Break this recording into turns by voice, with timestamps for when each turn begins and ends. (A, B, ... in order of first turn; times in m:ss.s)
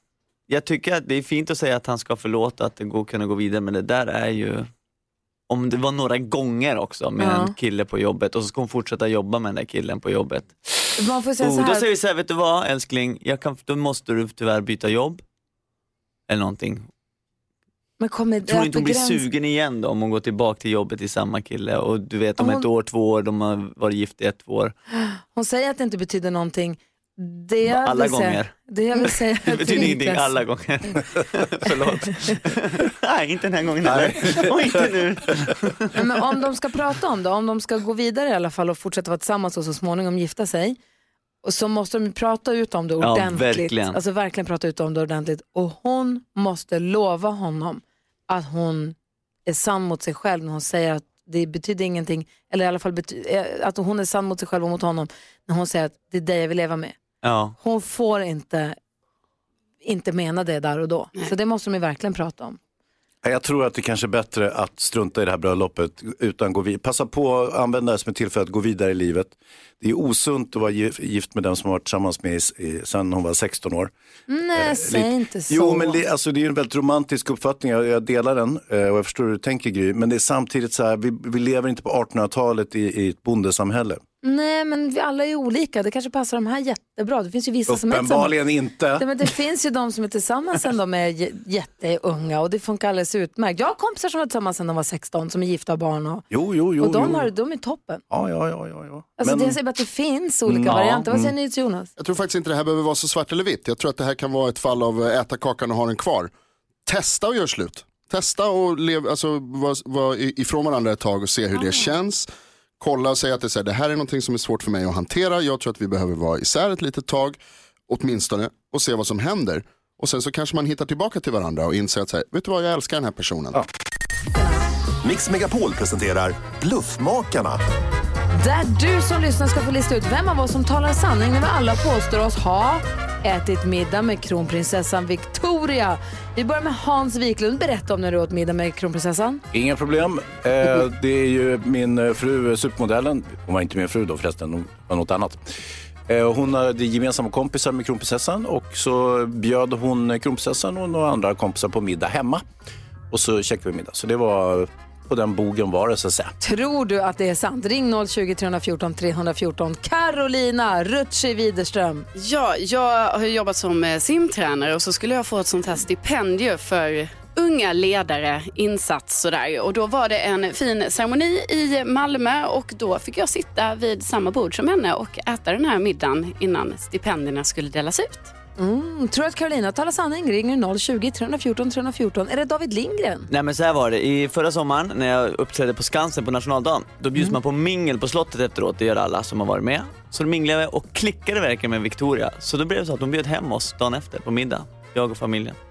0:00.5-0:04.6 A
0:05.5-0:10.6 A
0:07.2-0:07.5 B
0:11.0-0:11.9 B
0:11.4-0:15.2 A
0:16.3-0:16.9 A
0:18.0-0:19.3 B
0:18.4-0:24.7 A
0:22.4-0:22.7 B
0:25.0-0:30.4 B
0:27.7-0:35.9 A
0:33.8-0:34.5 C
0:35.9-0:40.8 B
0:41.4-0:48.9 B
0:43.0-0:44.0 A
0:49.4-0:57.0 B
0:57.2-0:57.5 A
0:57.6-0:58.7 B
0:59.8-1:02.6 B
1:03.2-1:13.9 C
1:14.3-1:16.0 B
1:14.5-1:24.0 C
1:24.2-1:28.3 B
1:27.7-1:29.1 C
1:29.0-1:36.2 B
1:36.3-1:37.3 C
1:36.8-1:38.0 B
1:38.1-1:39.6 C
1:39.2-1:41.9 B
1:40.5-1:41.3 C
1:40.7-1:41.0 A
1:42.0-1:46.3 D
1:46.8-1:52.3 D
1:51.6-1:51.9 B
1:52.8-1:57.4 D
1:57.9-2:03.6 D
2:04.3-2:04.6 B
2:05.0-2:07.6 E
2:08.3-2:19.4 B
2:19.5-2:25.4 C
2:26.1-2:32.4 C
2:33.1-2:36.3 C
2:36.4-2:42.1 B
2:42.2-2:58.3 F
2:58.6-3:03.3 B
3:03.3-3:15.6 A